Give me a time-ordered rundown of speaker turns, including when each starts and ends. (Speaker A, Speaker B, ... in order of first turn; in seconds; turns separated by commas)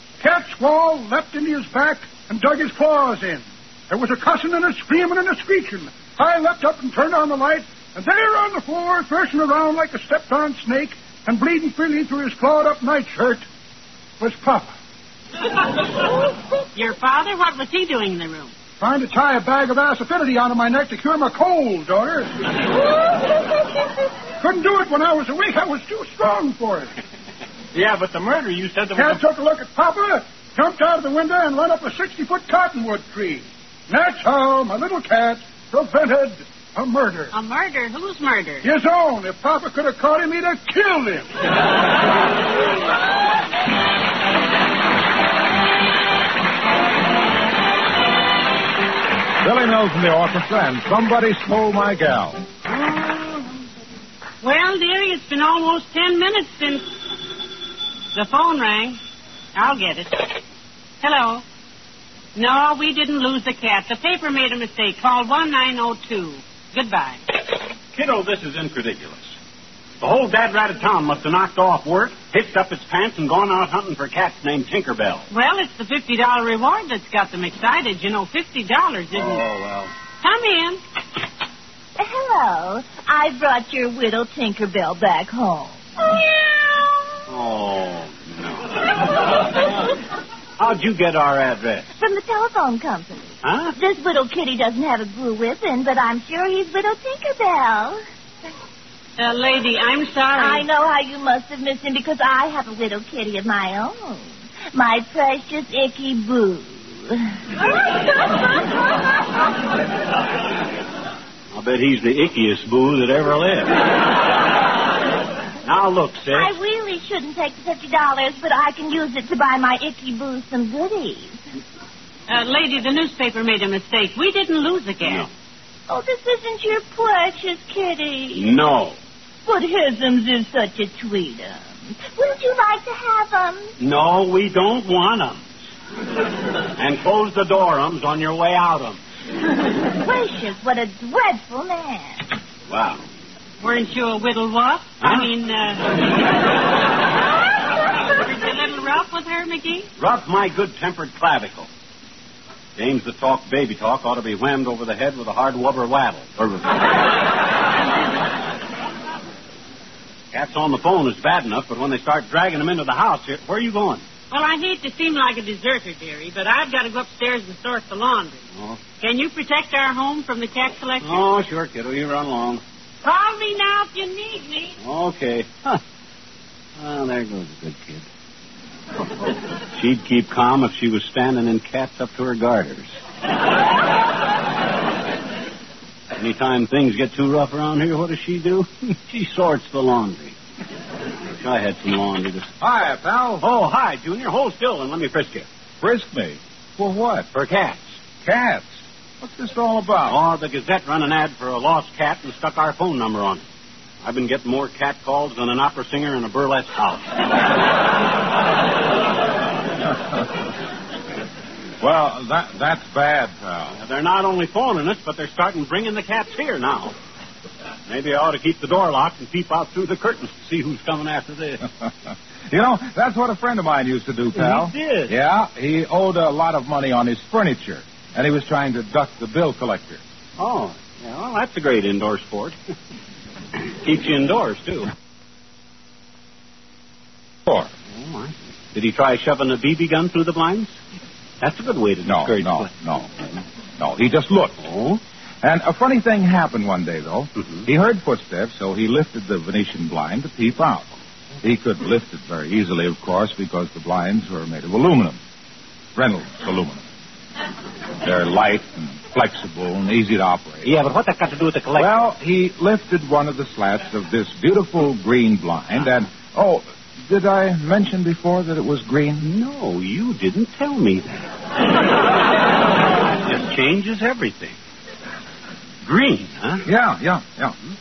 Speaker A: 0.2-13.4, Speaker A: 14.2-14.7, Speaker B: 16.7-18.5, Speaker A: 18.8-22.3, Speaker A: 24.4-26.9, Speaker C: 27.7-29.2, Speaker A: 28.9-37.3, Speaker B: 37.3-38.7, Speaker A: 38.6-41.3, Speaker D: 49.4-52.4, Speaker B: 54.4-56.8, Speaker B: 58.1-59.0, Speaker B: 59.5-60.4, Speaker B: 61.0-61.4, Speaker B: 62.3-67.2, Speaker C: 67.9-69.3, Speaker C: 70.0-75.2, Speaker B: 75.3-79.4, Speaker C: 79.1-79.9, Speaker B: 80.2-80.8, Speaker E: 82.0-86.4, Speaker C: 87.3-89.0, Speaker C: 90.6-91.9, Speaker E: 92.0-98.0, Speaker C: 93.4-93.7, Speaker B: 99.2-100.6, Speaker E: 100.4-107.2, Speaker C: 111.5-113.8, Speaker C: 115.6-116.5, Speaker E: 116.3-121.4, Speaker B: 122.3-125.3, Speaker C: 125.0-125.3, Speaker E: 125.9-128.5, Speaker C: 128.3-129.0, Speaker E: 129.4-133.7, Speaker C: 133.8-135.4, Speaker C: 136.8-139.0, Speaker E: 139.8-142.2, Speaker C: 142.7-143.0, Speaker B: 143.6-145.9, Speaker C: 145.0-145.3, Speaker B: 148.1-149.9, Speaker C: 150.0-151.7, Speaker C: 152.8-156.8, Speaker C: 160.3-164.0, Speaker B: 164.3-168.4, Speaker B: 169.0-171.2, Speaker C: 171.0-172.6, Speaker B: 173.0-174.8, Speaker C: 174.8-175.8, Speaker C: 176.8-178.1, Speaker C: 179.7-182.9, Speaker C: 186.2-190.3, Speaker C: 191.4-192.5, Speaker D: 192.6-193.4, Speaker C: 193.4-195.5, Speaker D: 195.8-197.3, Speaker C: 197.3-197.9, Speaker D: 198.2-200.2, Speaker C: 200.1-203.4, Speaker C: 204.0-207.1, Speaker D: 211.8-213.8, Speaker C: 213.8-216.9, Speaker C: 217.9-221.6, Speaker D: 222.5-230.0, Speaker C: 224.3-225.1, Speaker C: 230.4-232.6, Speaker C: 233.8-234.9, Speaker C: 237.9-240.8, Speaker C: 241.4-242.7, Speaker D: 242.0-243.3, Speaker D: 243.8-244.6, Speaker C: 244.6-245.0, Speaker D: 245.4-250.9, Speaker D: 251.4-255.2, Speaker D: 255.9-256.8, Speaker D: 258.0-260.7, Speaker C: 260.6-261.9, Speaker D: 261.7-269.3, Speaker C: 269.2-271.1, Speaker C: 273.2-274.6, Speaker C: 275.8-276.6, Speaker D: 276.6-277.5